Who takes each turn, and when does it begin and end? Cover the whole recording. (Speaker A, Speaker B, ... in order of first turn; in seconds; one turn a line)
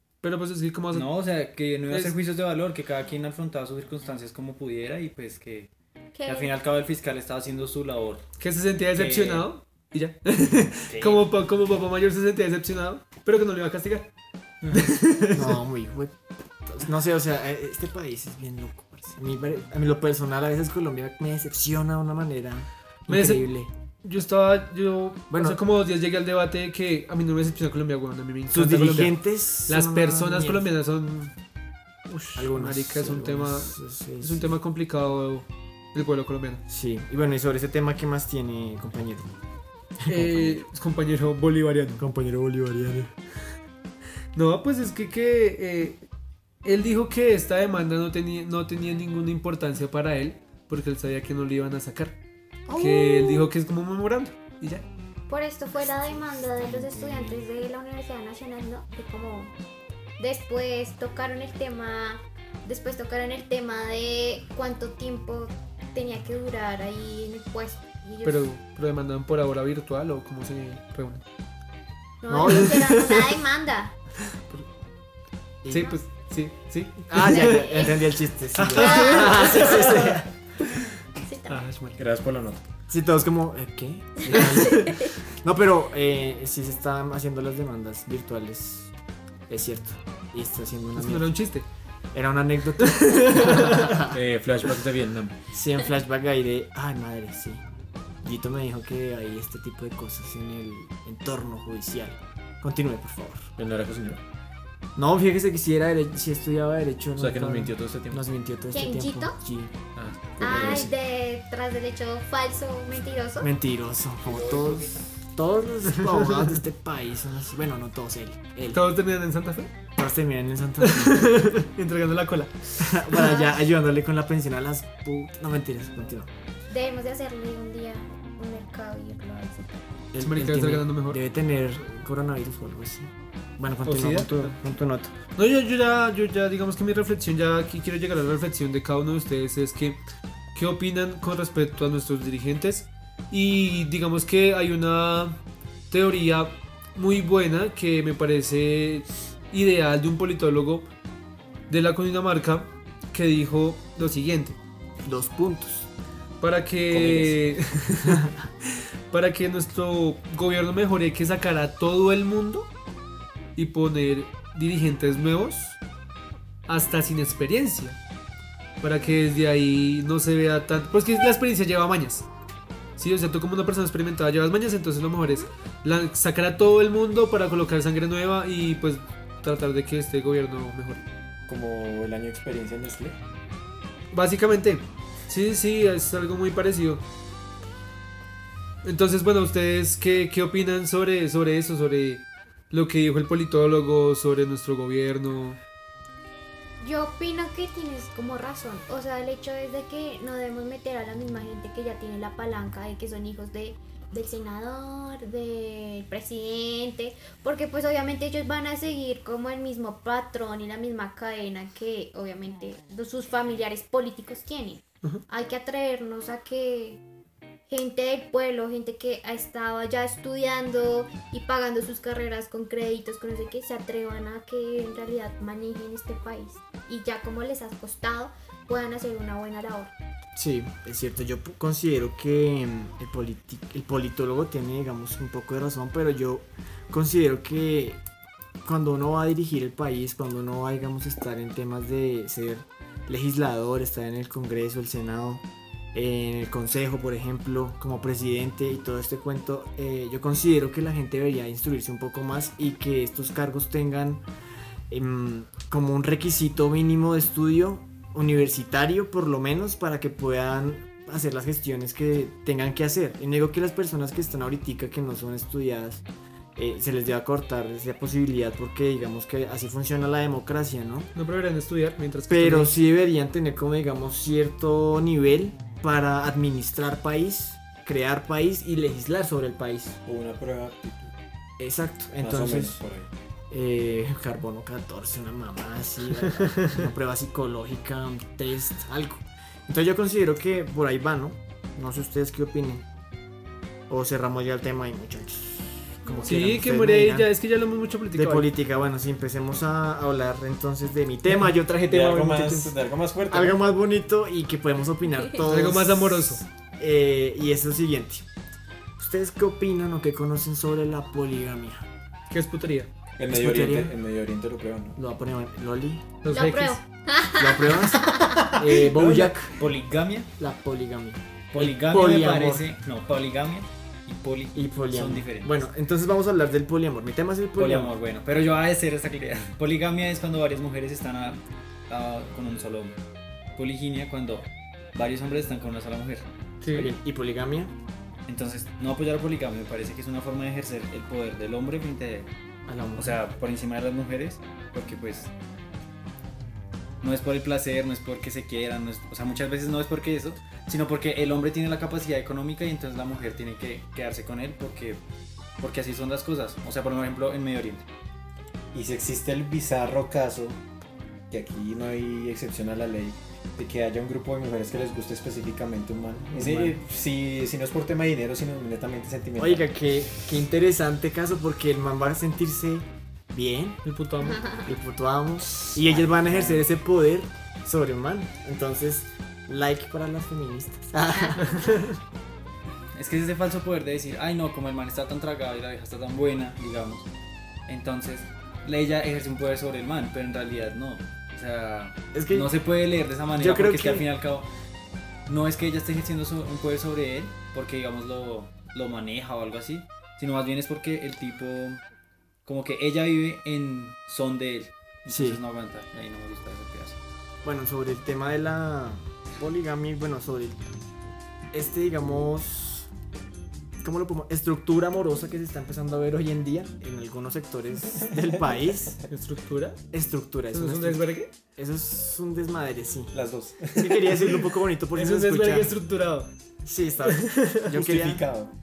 Speaker A: 0.2-1.1
Speaker B: 0.9-5.7
Speaker A: 1.9-2.2
Speaker C: 6.2-6.5
Speaker B: 6.3-8.2
Speaker A: 8.4-14.1
Speaker B: 8.9-9.5
Speaker B: 10.9-11.3
Speaker A: 14.7-15.6
Speaker D: 15.3-16.1
Speaker D: 16.7-23.7
Speaker A: 23.1-23.5
Speaker A: 24.0-31.3
Speaker D: 25.3-25.6
Speaker D: 28.5-30.6
Speaker A: 32.1-36.6
Speaker D: 32.4-34.5
Speaker D: 36.7-39.3
Speaker D: 40.0-40.6
Speaker A: 40.1-42.0
Speaker D: 42.0-43.1
Speaker A: 44.4-46.0
Speaker A: 46.6-52.2
Speaker D: 52.7-53.5
Speaker A: 52.7-54.9
Speaker C: 55.3-59.5
Speaker D: 56.7-57.3
Speaker C: 60.2-68.5
Speaker A: 68.2-71.2
Speaker C: 72.2-74.0
Speaker D: 72.3-73.2
Speaker A: 72.5-73.2
Speaker D: 75.7-76.0
Speaker A: 75.7-77.9
Speaker D: 77.1-80.3
Speaker C: 77.2-78.0
Speaker A: 78.6-80.9
Speaker C: 78.8-80.0
Speaker C: 81.2-81.6
Speaker A: 81.5-82.0
Speaker E: 82.0-82.6
Speaker D: 82.9-88.9
Speaker C: 84.3-85.2
Speaker A: 84.3-85.0
Speaker D: 89.5-91.3
Speaker A: 91.0-91.7
Speaker D: 92.1-94.2
Speaker A: 92.8-93.9
Speaker E: 94.1-95.3
Speaker D: 95.5-97.6
Speaker D: 98.2-103.5
Speaker E: 103.6-104.2
Speaker D: 105.0-109.7
Speaker E: 107.2-108.2
Speaker C: 108.7-109.4
Speaker E: 110.0-111.0
Speaker C: 110.4-113.5
Speaker D: 110.5-110.8
Speaker D: 113.4-118.8
Speaker B: 114.2-115.0
Speaker A: 118.7-119.7
Speaker D: 120.0-121.4
Speaker A: 120.8-123.1
Speaker D: 122.8-126.3
Speaker C: 123.1-123.6
Speaker C: 126.7-129.8
Speaker D: 130.1-135.1
Speaker A: 130.2-131.2
Speaker A: 133.8-134.6
Speaker A: 135.4-140.0
Speaker A: 140.6-150.9
Speaker A: 151.7-154.6
Speaker D: 155.1-155.9
Speaker A: 156.4-158.3
Speaker D: 156.9-157.4
Speaker A: 159.1-162.7
Speaker A: 163.6-165.8
Speaker A: 166.7-168.0
Speaker A: 168.8-172.3
Speaker A: 173.0-181.0
Speaker E: 181.5-183.2
Speaker A: 184.1-187.0
Speaker A: 188.8-195.6
Speaker C: 196.8-217.0
Speaker C: 217.7-229.9
Speaker D: 230.4-238.0
Speaker D: 238.6-254.2
Speaker D: 254.9-266.0
Speaker D: 266.6-271.1
Speaker A: 271.1-272.7
Speaker D: 272.3-280.0
Speaker E: 280.1-281.1
Speaker D: 281.6-282.8
Speaker E: 282.2-283.1
Speaker D: 283.5-292.9
Speaker A: 286.5-286.8
Speaker D: 293.9-297.3
Speaker C: 296.1-296.3
Speaker A: 296.2-298.5
Speaker D: 298.1-302.7
Speaker E: 301.8-303.6
Speaker D: 303.3-308.2
Speaker A: 305.4-306.4
Speaker D: 309.0-311.9
Speaker A: 312.3-312.9
Speaker E: 313.2-315.0
Speaker D: 313.3-313.9
Speaker D: 315.0-316.1
Speaker A: 316.2-316.8
Speaker C: 316.3-318.6
Speaker D: 317.4-319.6
Speaker E: 318.7-319.4
Speaker B: 319.6-320.3
Speaker D: 320.4-322.6
Speaker B: 321.5-325.6
Speaker D: 324.6-327.9
Speaker B: 327.6-333.0
Speaker B: 333.6-336.3
Speaker A: 336.6-336.9
Speaker D: 336.7-337.7
Speaker B: 338.3-342.3
Speaker D: 342.7-343.2
Speaker B: 342.9-345.3
Speaker B: 347.0-355.0
Speaker B: 355.6-357.9
Speaker E: 358.7-360.6
Speaker E: 361.3-369.7
Speaker D: 366.4-366.8
Speaker D: 369.4-373.8
Speaker A: 373.8-374.4
Speaker C: 374.2-374.7
Speaker D: 374.6-381.9
Speaker B: 375.8-376.6
Speaker C: 381.2-381.4
Speaker A: 381.4-381.9
Speaker B: 382.9-387.1
Speaker B: 387.7-394.5
Speaker D: 392.1-392.5
Speaker D: 393.4-394.1
Speaker B: 395.3-401.8
Speaker B: 402.4-407.0
Speaker D: 405.1-405.4
Speaker D: 407.4-410.6
Speaker D: 411.5-412.9
Speaker D: 413.8-419.0
Speaker A: 419.1-419.8
Speaker D: 419.9-423.2
Speaker A: 420.5-421.3
Speaker E: 423.1-424.5
Speaker D: 423.7-425.7
Speaker A: 424.9-426.3
Speaker D: 426.6-428.3
Speaker A: 427.1-427.7
Speaker E: 427.7-428.5